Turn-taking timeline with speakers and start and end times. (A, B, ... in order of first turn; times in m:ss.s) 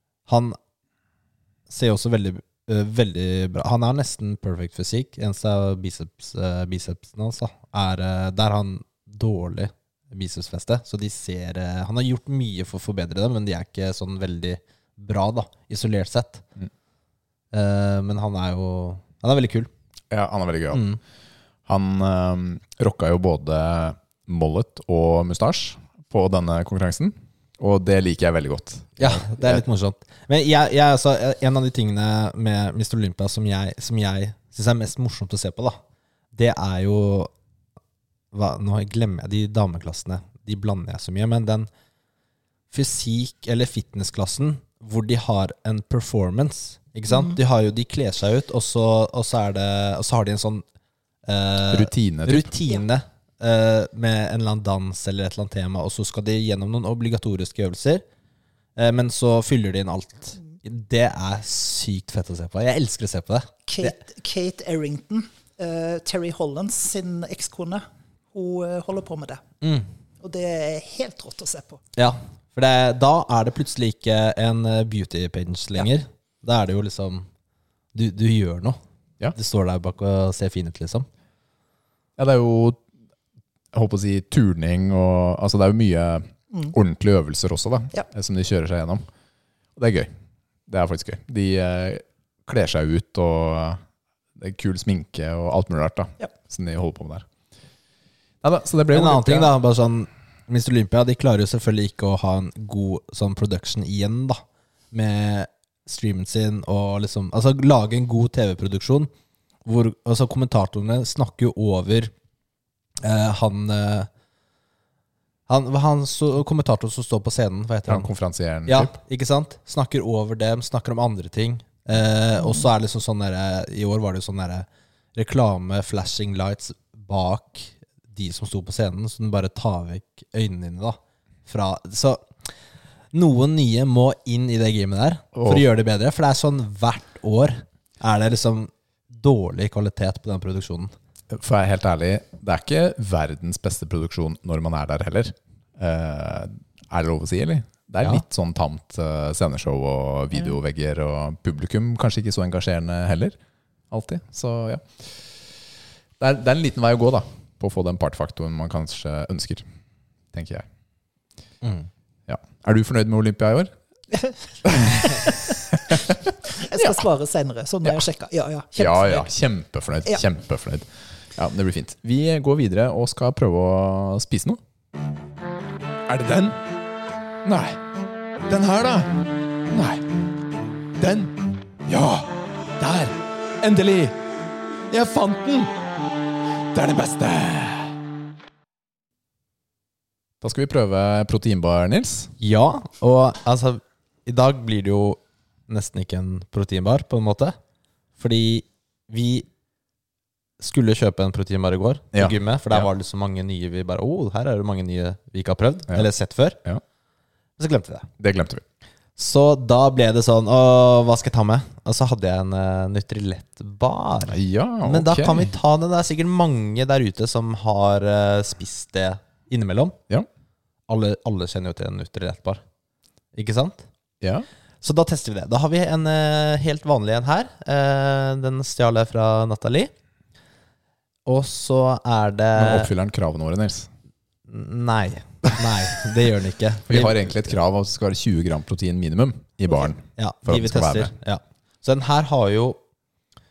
0:00.3-0:00.6 A
0:01.7-0:16.4 A
0:17.5-0:19.7 A
0:20.1-0:20.9 B
0:20.7-0:21.0 A
0:21.7-0:29.6 B
0:29.0-0:35.8 A
0:36.4-0:37.3 A
0:38.3-0:41.7 A
0:42.7-0:50.6 A
0:47.1-0:47.4 C
0:51.3-0:58.0 A
0:51.7-0:52.5 B
0:58.8-1:04.0 A
1:03.7-1:09.4 C
1:09.6-1:09.9 A
1:10.2-1:11.8 C
1:12.0-1:17.3 A
1:17.9-1:18.8 A
1:19.3-1:21.1 A
1:22.2-1:22.8 B
1:23.7-1:29.0 B
1:29.8-1:30.1 B
1:30.7-1:33.8 B
1:34.4-1:37.3 B
1:38.4-1:39.5 B
1:38.9-1:49.1 A
1:49.6-1:52.1 A
1:53.0-1:54.1 A
1:55.5-1:58.1 A
1:57.9-1:58.9 B
1:58.7-2:12.5 A
2:13.1-2:20.9 A
2:15.4-2:15.7 B
2:21.3-2:33.4 B
2:33.9-2:35.3 B
2:36.2-2:39.6 B
2:40.3-2:40.7 B
2:41.6-2:41.9 A
2:42.3-2:43.7 B
2:44.2-2:45.6 C
2:44.6-2:46.2 B
2:46.5-2:49.3 C
2:48.8-2:54.6 B
2:56.1-2:56.6 B
2:57.4-2:57.8 B
2:58.5-3:00.1 B
3:01.0-3:04.2 B
3:04.9-3:05.7 B
3:06.7-3:08.0 B
3:10.4-3:12.3 B
3:12.4-3:17.6 A
3:18.2-3:19.5 A
3:20.6-3:26.6 A
3:22.1-3:22.9 B
3:27.6-3:28.1 A
3:28.2-3:28.6 B
3:29.2-3:40.0 A
3:34.3-3:35.5 B
3:40.9-3:42.6 A
3:43.3-3:43.8 A
3:44.2-3:44.5 B
3:44.8-3:49.9 A
3:51.3-3:52.9 A
3:52.6-3:53.9 B
3:54.5-3:57.5 A
3:56.9-4:01.1 B
4:00.2-4:02.8 A